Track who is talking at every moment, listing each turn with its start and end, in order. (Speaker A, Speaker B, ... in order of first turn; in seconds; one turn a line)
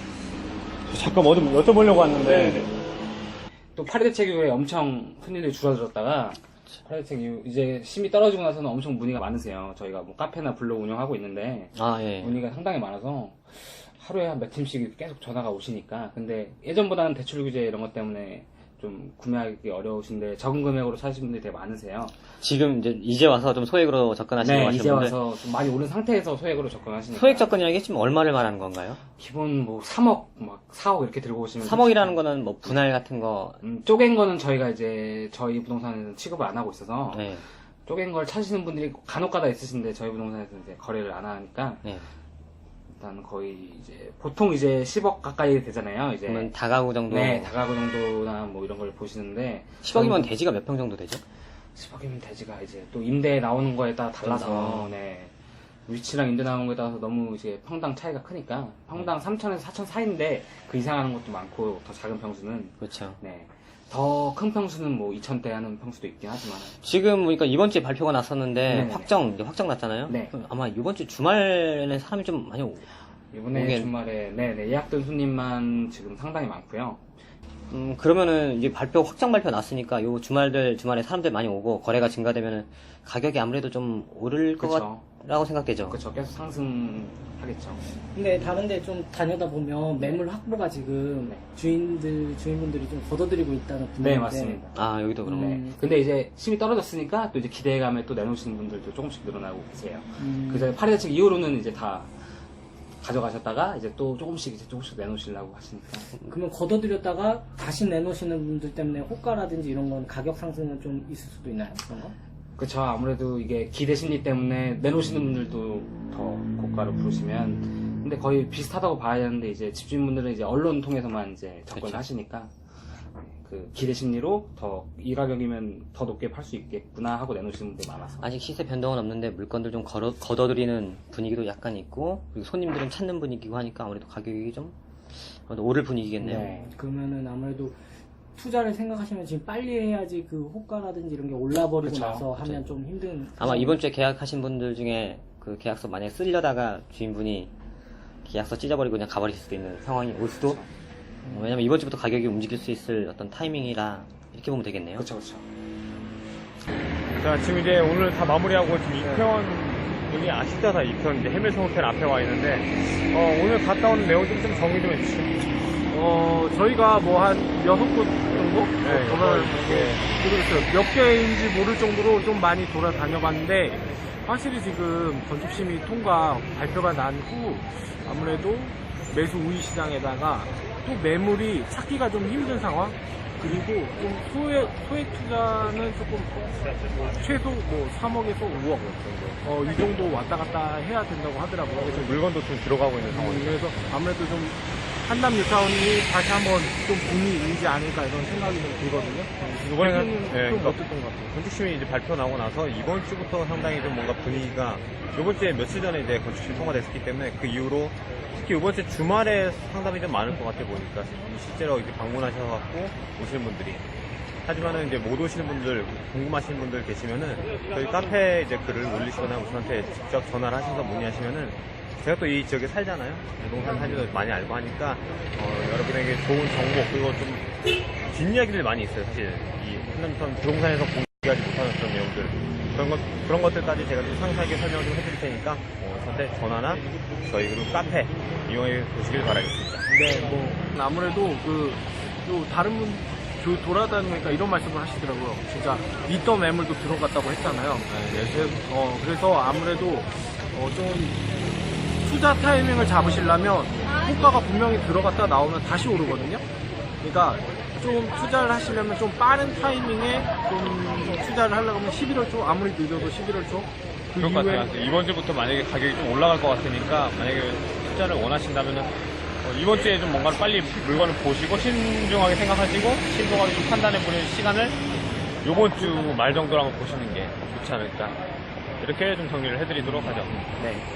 Speaker A: 0.9-2.7
Speaker B: 3.8-22.1
Speaker C: 11.7-12.4
Speaker C: 22.4-25.2
Speaker B: 24.4-27.6
Speaker C: 27.1-29.0
Speaker B: 29.2-32.7
Speaker C: 31.6-33.6
Speaker B: 33.6-37.2
Speaker C: 37.1-37.4
Speaker B: 37.9-41.8
Speaker B: 43.0-46.5
Speaker C: 46.2-47.5
Speaker B: 47.1-50.3
Speaker C: 49.8-51.2
Speaker B: 51.8-55.3
Speaker C: 54.2-54.9
Speaker B: 55.9-66.7
Speaker C: 62.8-63.1
Speaker C: 66.8-72.8
Speaker B: 68.7-69.1
Speaker B: 70.0-70.3
Speaker B: 73.3-77.0
Speaker C: 73.5-73.9
Speaker C: 77.7-86.0
Speaker B: 84.6-85.0
Speaker B: 85.9-87.8
Speaker D: 88.1-94.6
Speaker B: 94.0-102.1
Speaker C: 94.7-95.5
Speaker D: 95.4-95.7
Speaker D: 100.2-100.7
Speaker B: 103.0-106.1
Speaker D: 106.2-112.1
Speaker B: 112.6-122.5
Speaker C: 121.7-122.0
Speaker B: 123.2-128.2
Speaker C: 128.2-136.4
Speaker D: 136.2-137.8
Speaker B: 136.2-136.7
Speaker D: 138.3-143.8
Speaker B: 141.8-142.3
Speaker C: 142.3-142.8
Speaker C: 143.4-147.5
Speaker C: 148.2-150.6
Speaker D: 151.2-151.5
Speaker C: 151.3-155.1
Speaker B: 155.0-155.4
Speaker A: 157.2-165.7
Speaker E: 165.9-192.2
Speaker A: 168.8-170.1
Speaker A: 191.8-193.6
Speaker E: 193.1-201.3
Speaker A: 199.6-200.8
Speaker A: 201.3-213.8
Speaker A: 214.4-239.8
Speaker E: 239.9-251.2
Speaker A: 247.9-248.6
Speaker E: 252.0-256.4
Speaker E: 257.0-264.7
Speaker A: 264.2-274.8
Speaker A: 275.4-278.2
Speaker A: 278.8-280.4
Speaker C: 280.6-280.8